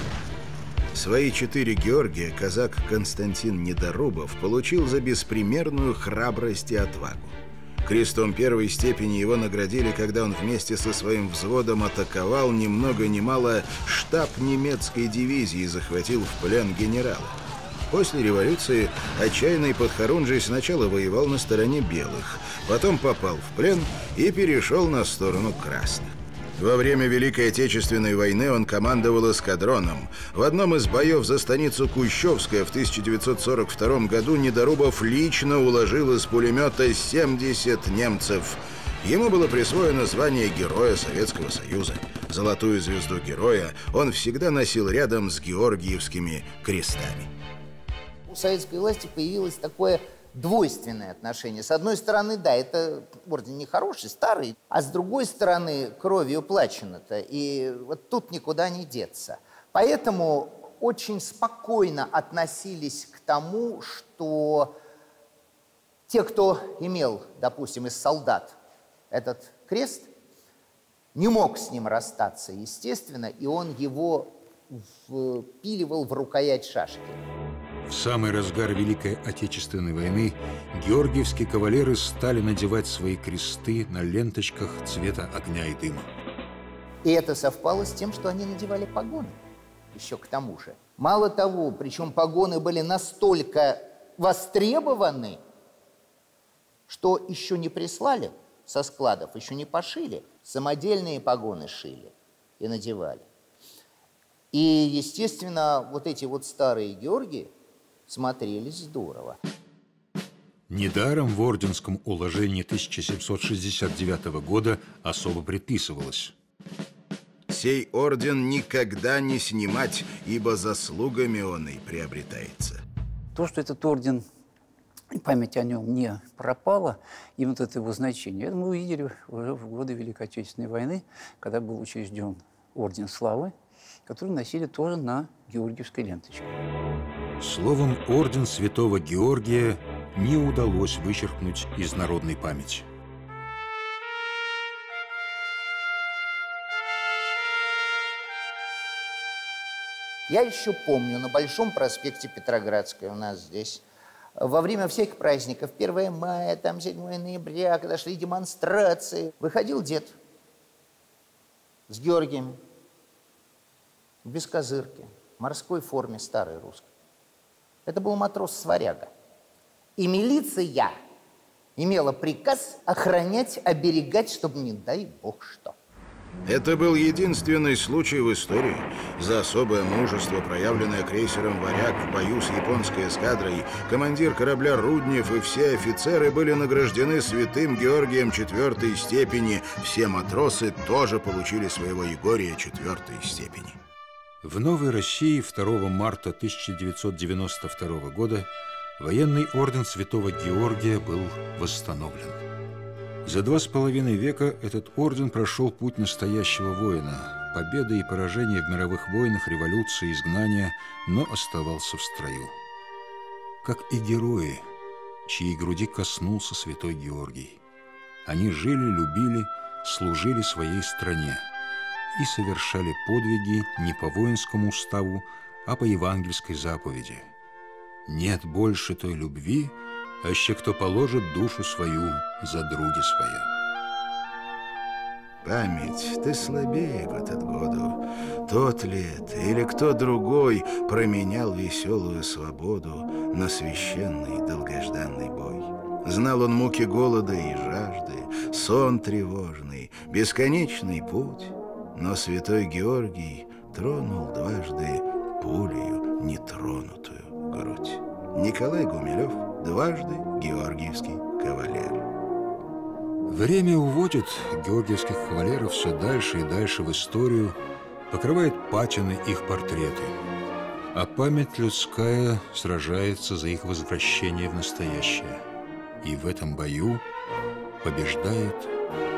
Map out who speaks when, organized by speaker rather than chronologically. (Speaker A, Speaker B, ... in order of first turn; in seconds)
Speaker A: 0.9-17.4, 17.9-47.3, 117.5-122.8, 176.4-193.8, 235.4-262.1
Speaker B: 48.3-64.8, 66.1-68.6, 69.1-70.1, 71.2-77.2, 87.0-89.4, 89.9-95.4, 96.9-103.3, 104.5-107.5, 108.1-109.4, 150.3-153.8, 154.4-160.2, 161.9-162.6, 164.2-166.9, 167.9-169.1, 170.0-170.9, 171.8-175.7
Speaker C: 77.9-86.1, 110.7-116.3, 137.4-142.9, 194.4-202.4, 203.2-212.5, 213.6-214.7, 215.3-217.6, 218.2-221.4, 222.1-227.3, 228.1-233.5, 263.3-270.2, 270.9-275.5, 276.0-277.0, 277.8-278.7
Speaker D: 123.3-124.2, 125.2-133.5, 134.1-136.6